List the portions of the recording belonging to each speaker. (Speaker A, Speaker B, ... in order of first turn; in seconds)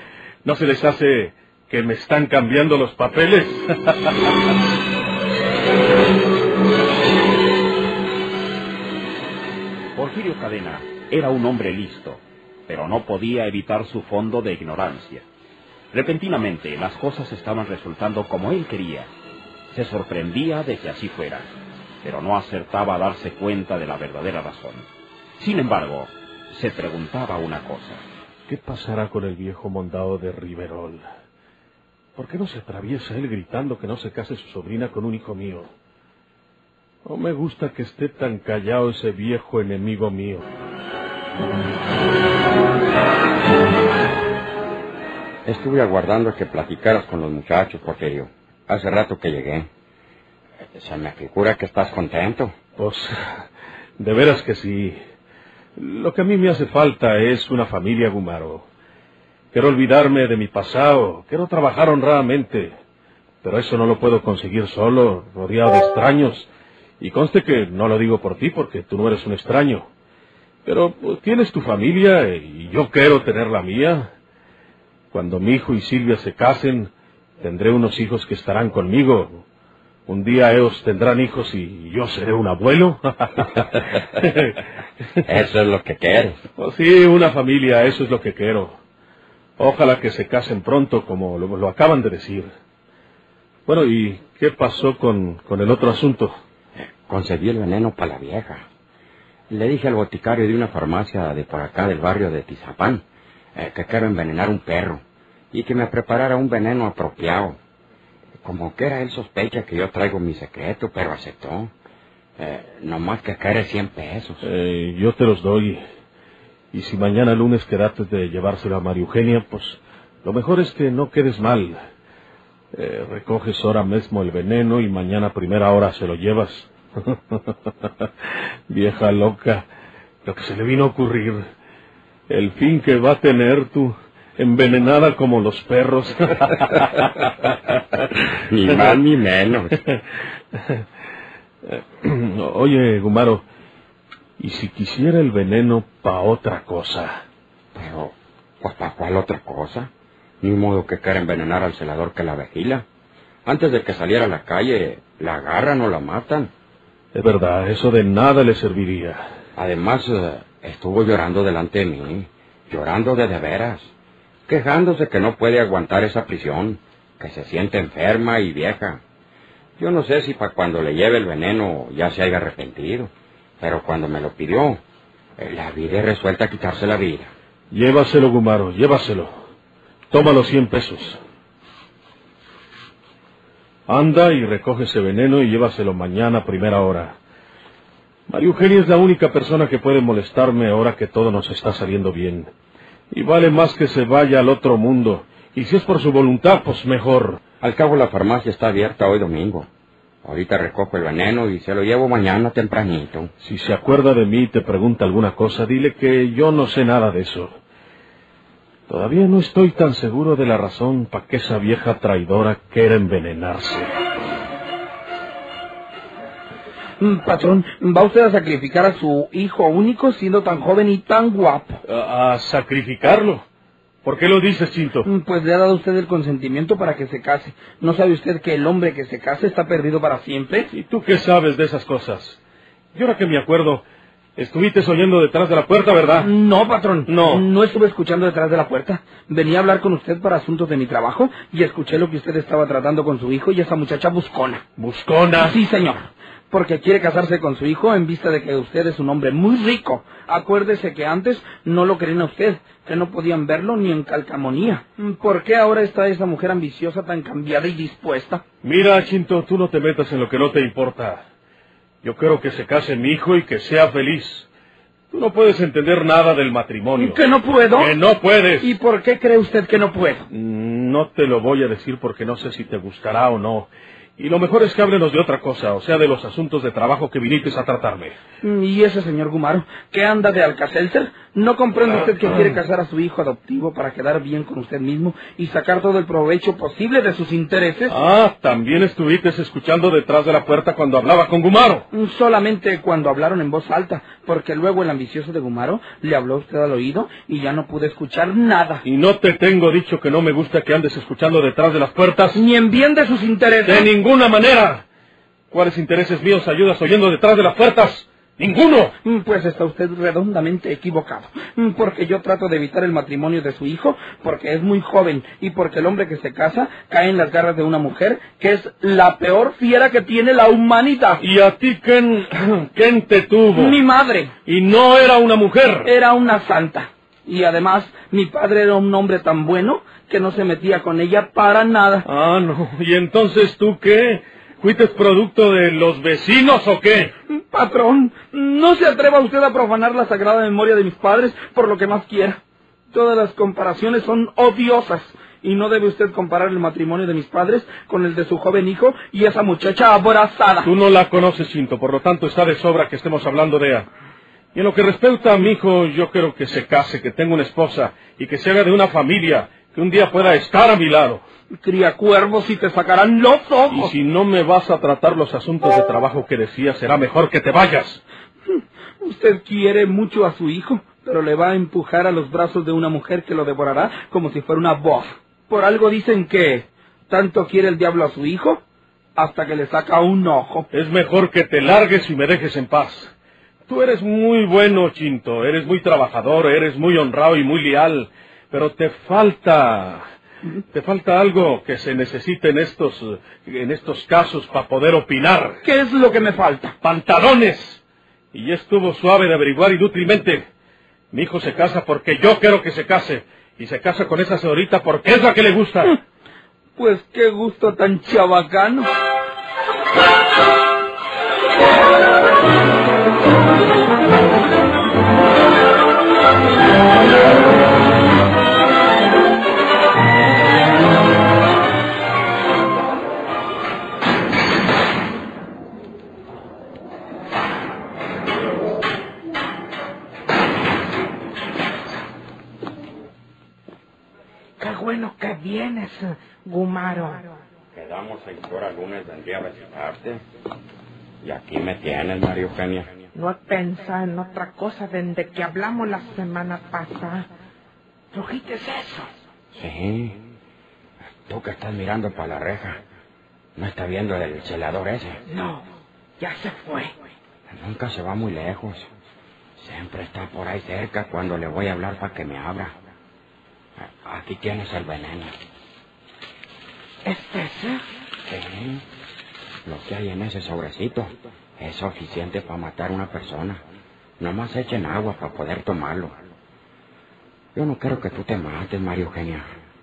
Speaker A: 0.4-4.3, 28.5-31.1, 32.1-35.7, 37.0-40.4, 52.8-53.1, 54.0-55.0, 55.8-58.7, 59.5-62.8, 63.4-66.5, 67.0-69.9, 70.6-74.1, 75.1-79.5, 80.1-84.6, 86.6-88.8, 89.6-92.5, 93.7-96.3, 114.4-115.8, 116.7-121.8, 122.7-128.1, 128.7-129.7, 130.2-131.5, 132.3-137.6, 138.7-139.0, 141.7-143.4, 144.4-147.2, 157.1-159.2, 177.7-179.3, 180.1-181.2, 183.9-187.2, 188.3-192.5, 193.1-197.4, 203.4-207.6, 208.9-213.9, 221.8-223.4, 224.0-225.1, 230.7-232.4, 232.9-233.8, 234.4-236.3, 237.1-237.5, 244.8-245.6, 258.6-261.2, 262.0-264.5, 265.1-268.8, 270.3-278.2, 281.9-282.6, 287.9-291.9, 298.8-302.4, 303.6-304.9, 305.5-308.9, 321.2-323.8, 324.4-325.9, 332.0-337.1, 350.6-353.9, 354.5-361.2, 363.7-368.0, 380.7-383.1, 383.7-390.0, 390.7-395.6, 396.8-400.5, 401.1-406.0
Speaker B: 9.9-15.2, 15.9-19.1, 19.7-28.0
Speaker C: 45.5-49.7, 50.8-52.5, 85.2-86.4, 96.8-98.6, 99.5-103.0, 103.5-105.0, 105.5-107.6, 108.4-111.7, 112.4-114.5, 138.2-139.8, 147.8-149.9, 150.4-152.8, 153.5-156.5, 159.6-163.9, 164.5-169.0, 169.8-174.8, 175.4-177.3, 197.6-199.7, 200.2-203.3, 437.7-440.2, 441.2-442.9, 449.5-450.2, 451.3-452.8, 453.6-455.2, 457.5-458.9, 459.6-462.8, 463.8-465.4, 468.3-468.8, 469.6-473.6, 474.2-476.1, 477.6-479.5
Speaker D: 217.0-221.7, 225.1-230.7, 236.2-244.6, 245.4-246.0, 246.5-258.4, 267.1-267.9, 268.6-270.2, 278.4-287.9, 291.9-298.8, 302.4-303.9, 309.1-321.2, 323.6-324.3, 325.9-332.0, 337.5-342.4, 342.9-350.7, 361.6-363.9, 369.1-378.6, 379.2-380.6, 395.6-396.7, 406.8-408.9
Speaker E: 434.6-437.3, 443.1-447.3, 448.1-449.1, 455.3-455.6, 456.2-456.9, 467.1-467.8